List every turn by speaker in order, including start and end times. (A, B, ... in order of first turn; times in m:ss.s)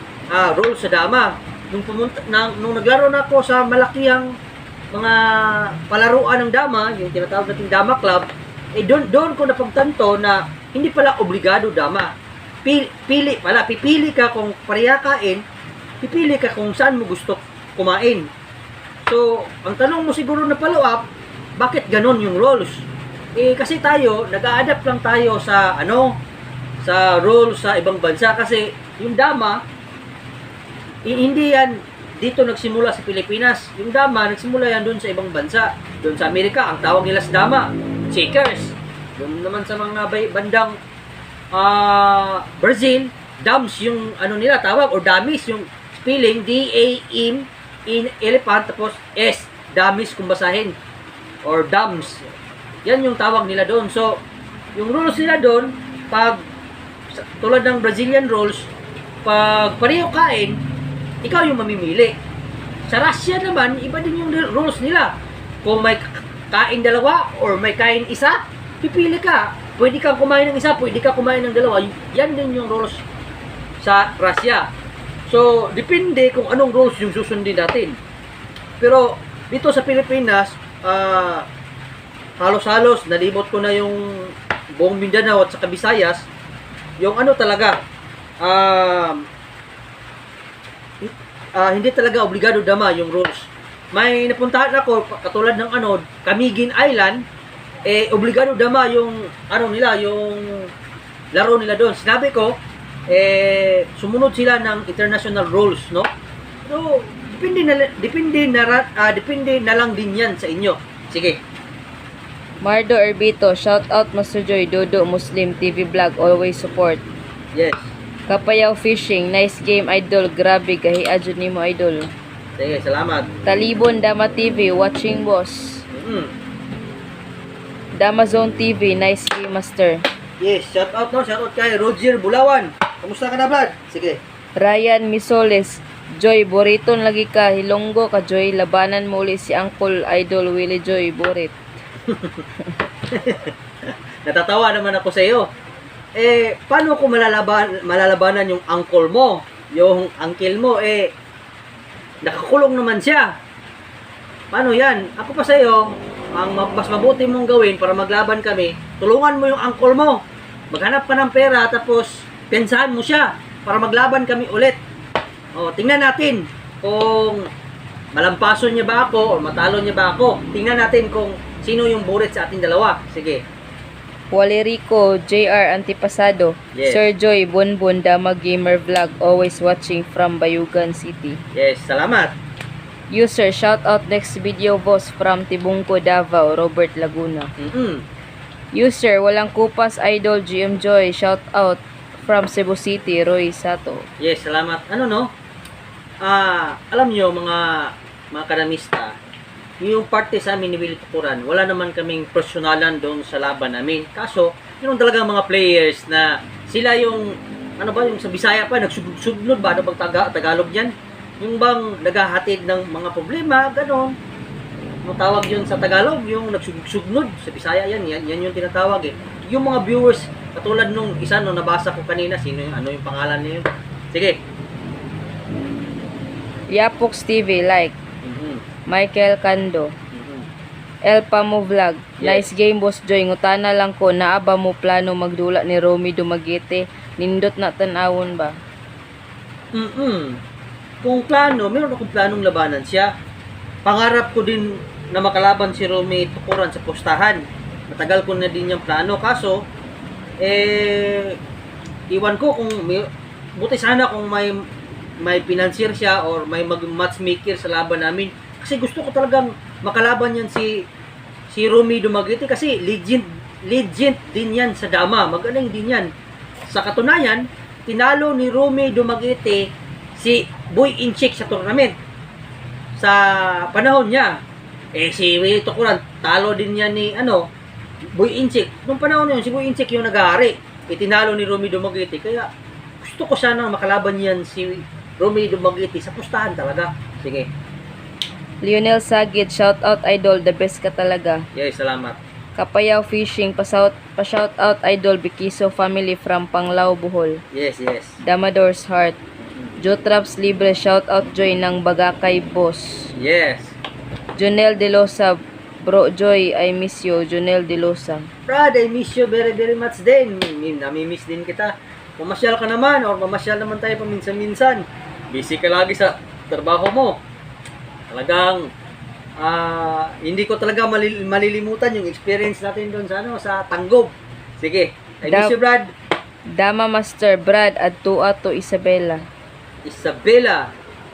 0:00.3-0:04.3 A
0:04.9-0:12.1 A
0:12.6-0:15.4 A
0:16.0-0:18.3 A
0:19.0-0:21.0 A
0:21.6-0:22.8 A
0:23.4-0:26.1 A
0:26.8-0:29.6 A
0:31.0-0:40.8 A
0:41.5-0:50.7 A
0:51.4-0:52.2 A
0:52.8-0:54.2 A
0:54.8-0:56.4 A
0:57.1-0:58.7 A
0:59.2-1:00.6 A
1:01.2-1:02.1 A
1:02.9-1:13.0 A
1:13.8-1:14.7 A
1:15.3-1:18.0 A
1:18.8-1:21.4 A
1:22.4-1:24.0 A
1:24.8-1:26.2 A
1:27.0-1:27.7 A
1:28.4-1:29.2 A
1:31.0-1:37.2 A
1:37.9-1:40.7 A
1:41.3-1:42.5 A
1:43.1-1:46.1 A
1:46.6-1:51.4 A
1:52.6-1:57.0 B
1:57.5-1:57.9 A
1:58.3-2:02.1 B
2:02.6-2:03.3 A
2:03.4-2:05.8 B
2:05.9-2:06.3 A
2:08.0-2:10.0 B
2:10.4-2:14.2 A
2:14.6-2:21.6 B
2:22.1-2:22.4 A
2:23.1-2:25.4 A
2:26.2-2:31.1 A
2:32.2-2:33.3 A
2:34.5-2:35.8 A
2:36.3-2:40.2 A
2:40.7-2:44.8 A
2:45.6-2:47.4 A
2:48.1-2:53.4 A
2:54.3-3:01.4 B
2:56.7-2:57.0 A
3:01.5-3:02.3 A
3:03.1-3:07.5 B
3:07.6-3:08.0 A
3:08.7-3:14.0 B
3:14.2-3:15.3 A
3:16.2-3:19.1 A
3:19.8-3:27.3 A
3:27.8-3:34.1 A
3:35.0-3:44.4 A
3:46.7-3:48.0 B
3:48.2-3:48.6 A
3:48.9-3:49.9 B
3:50.1-3:50.5 A
3:51.1-3:58.5 B
3:52.2-3:52.4 A
3:59.7-4:00.4 A
4:01.0-4:03.1 A
4:03.8-4:09.6 A
4:10.4-4:11.4 A
4:12.1-4:14.6 A
4:15.2-4:20.7 A
4:21.5-4:26.1 A
4:26.7-4:31.9 A
4:33.0-4:34.3 A
4:34.9-4:37.4 A
4:38.2-4:42.5 A
4:43.0-4:47.5 A
4:48.6-4:51.4 B
4:51.5-4:52.2 A
4:52.6-4:57.4 B
4:57.5-4:58.2 A
4:58.2-4:59.2 B
4:59.8-5:02.9 B
5:03.2-5:03.8 A
5:04.4-5:08.3 B
5:08.5-5:17.2 A
5:18.1-5:18.6 A
5:19.4-5:25.9 A
5:25.2-5:25.5 B
5:26.6-5:29.2 B
5:29.8-5:30.6 A